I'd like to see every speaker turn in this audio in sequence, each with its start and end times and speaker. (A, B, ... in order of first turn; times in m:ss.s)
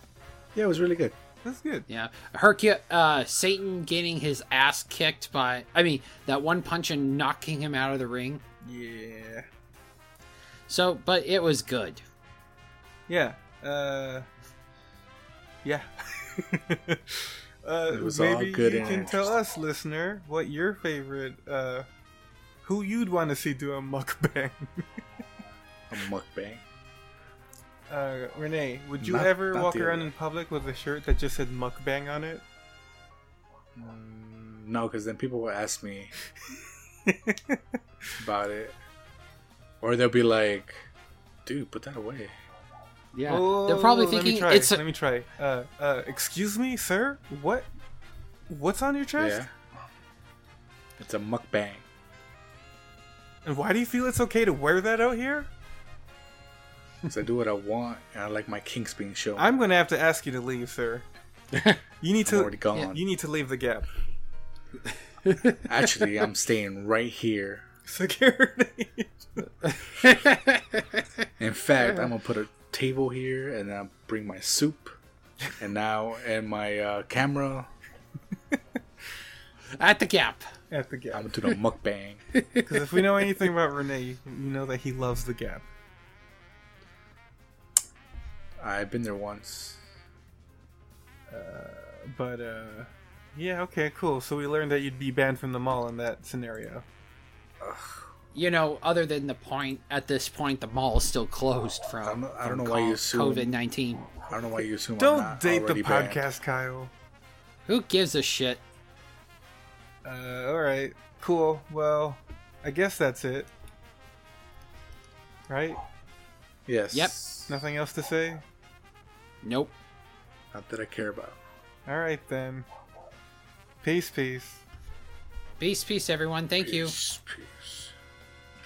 0:00.5-0:01.2 A
0:01.4-0:01.9 B
0:01.9-0:08.4 C
0:08.6-0:09.5 B
0:10.7-0:12.0 C
0:13.1-0:14.2 B
0:15.6-0:21.8 B
0:17.9-0:19.3 A
0:22.6-0:24.8 B
0:25.9-0:26.6 A
0:27.9-0:32.4 B
0:29.0-0:30.1 A
0:33.7-0:36.1 A
0:37.0-0:37.6 B
0:38.2-0:38.8 A
0:39.8-0:40.8 A
0:41.4-0:42.3 A
0:43.1-0:44.8 C
0:43.3-0:47.7 B
0:48.5-0:49.4 B
0:49.2-0:49.9 A
0:51.0-0:51.8 A
0:53.4-0:55.5 B
0:57.1-0:59.5 A
0:59.4-1:01.0 B
1:01.5-1:01.8 C
1:02.0-1:03.9 B
1:02.2-1:03.0 A
1:05.2-1:05.6 C
1:05.6-1:07.6 A
1:07.8-1:09.7 B
1:09.6-1:11.0 C
1:11.4-1:15.0 A
1:15.5-1:17.7 A
1:19.7-1:20.5 C
1:20.7-1:21.5 B
1:21.1-1:22.2 A
1:22.6-1:25.6 B
1:28.6-1:29.8 A
1:31.3-1:36.8 B
1:37.6-1:38.0 A
1:38.3-1:44.2 C
1:42.0-1:43.6 A
1:44.3-1:46.2 A
1:45.0-1:46.9 B
1:47.6-1:48.6 C
1:50.0-1:53.5 B
1:55.5-1:55.8 B
1:56.6-1:57.6 A
1:57.5-1:58.4 B
1:59.4-1:59.8 C
2:00.5-2:01.4 A
2:01.8-2:02.6 B
2:03.8-2:04.6 B
2:05.6-2:06.9 C
2:06.6-2:07.9 A